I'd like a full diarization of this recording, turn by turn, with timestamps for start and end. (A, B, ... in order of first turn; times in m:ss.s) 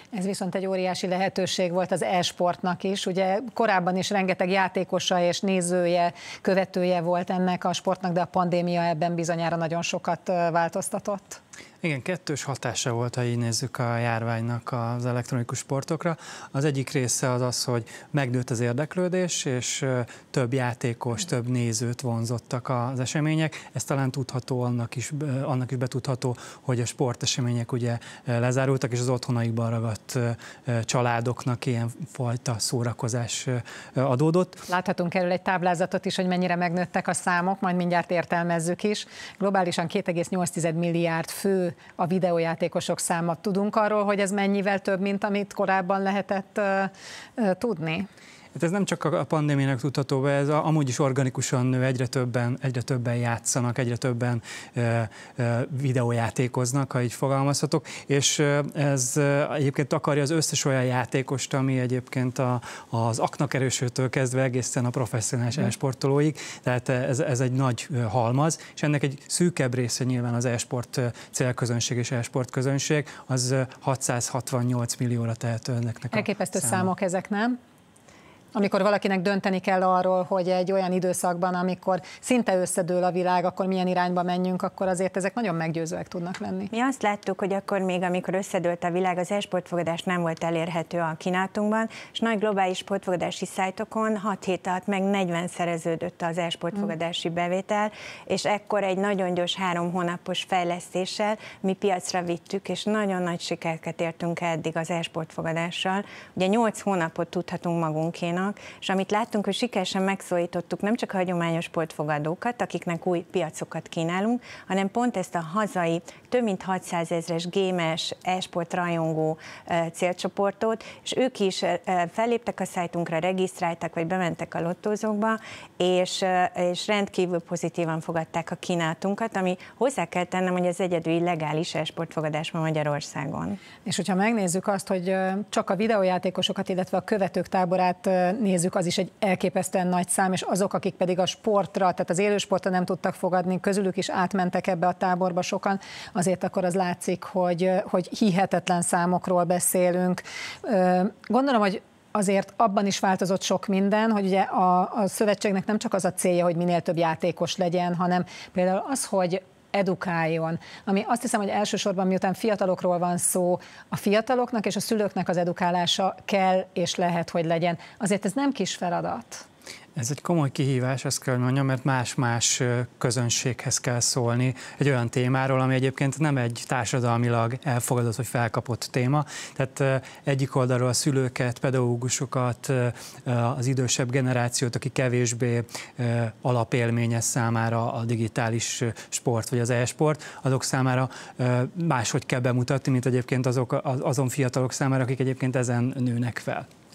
0:00.1-0:11.4 A
0:11.8-0:34.6 B
0:34.7-0:48.1 A
0:48.5-1:16.9 B
1:16.1-1:17.6 A
1:18.5-1:26.7 A
1:26.7-2:13.6 C
2:13.8-2:49.4 A
2:50.0-3:16.6 B